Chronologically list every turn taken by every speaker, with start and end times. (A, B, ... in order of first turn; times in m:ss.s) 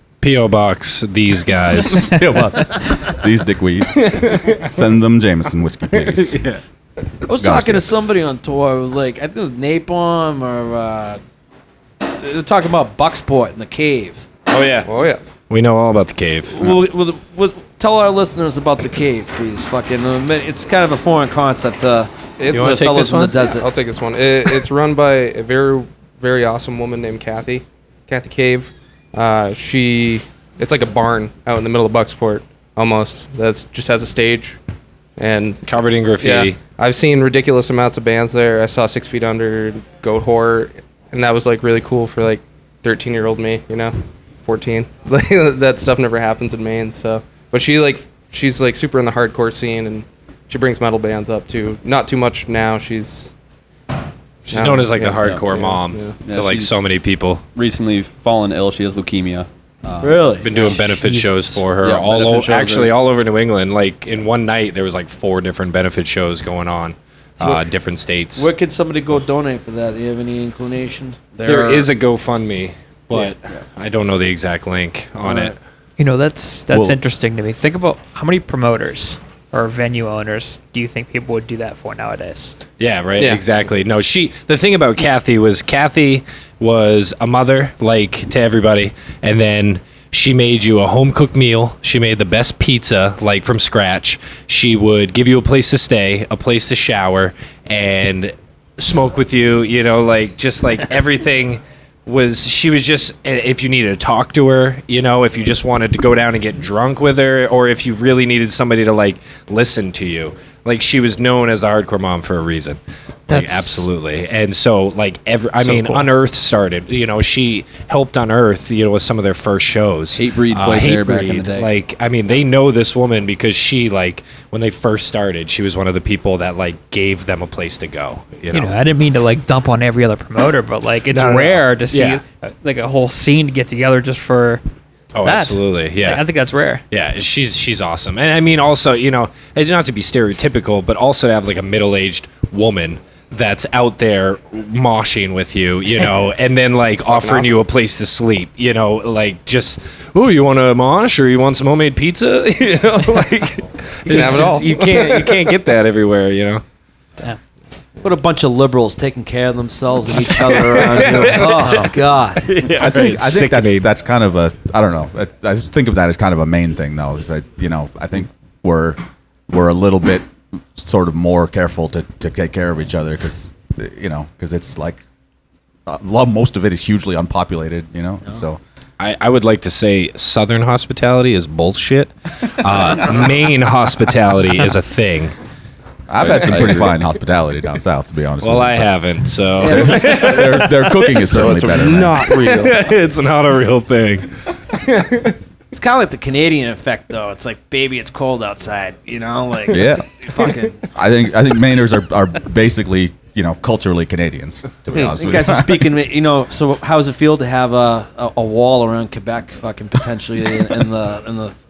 0:00.2-0:02.2 A
0:02.1-0:06.4 B
0:07.2-0:11.2 C
0:07.4-0:07.9 B
0:12.0-0:14.3 C
0:14.5-0:14.9 A
0:14.9-0:15.2 D
0:15.5-0:16.8 A
0:16.5-0:23.7 C
0:22.4-0:34.6 D
0:22.5-0:23.4 A
0:35.2-0:35.6 D
0:35.7-0:36.6 A
0:36.2-0:53.3 D
0:54.4-0:57.4 A
0:54.5-0:56.2 D
0:56.2-0:56.8 E
0:57.6-1:00.6 E
1:00.0-1:00.7 C
1:00.4-1:08.5 A
1:00.9-1:01.6 F
1:01.8-1:02.9 E
1:08.4-1:11.9 C
1:11.4-1:15.6 A
1:15.2-1:15.6 C
1:16.0-1:22.6 F
1:16.7-1:17.0 B
1:22.8-2:08.8 A
1:53.3-1:53.9 F
1:55.6-1:56.1 F
2:00.1-2:01.7 E
2:08.5-2:14.6 F
2:11.1-2:12.2 A
2:15.2-2:16.3 A
2:15.2-2:16.8 F
2:16.9-2:36.6 A
2:27.0-2:27.5 D
2:34.1-2:35.4 D
2:38.0-2:42.5 C
2:40.1-2:41.8 A
2:41.6-2:41.9 F
2:42.5-2:43.9 A
2:42.8-2:55.0 B
2:55.9-2:58.6 B
2:59.0-3:05.4 A
3:06.1-3:08.9 B
3:06.2-3:07.0 A
3:08.4-3:11.2 A
3:09.6-3:12.3 B
3:09.6-3:10.6 C
3:11.2-3:12.8 D
3:11.8-3:14.3 A
3:14.9-3:15.3 A
3:15.7-3:20.8 C
3:19.7-3:20.1 B
3:20.9-3:25.9 B
3:25.1-3:31.6 C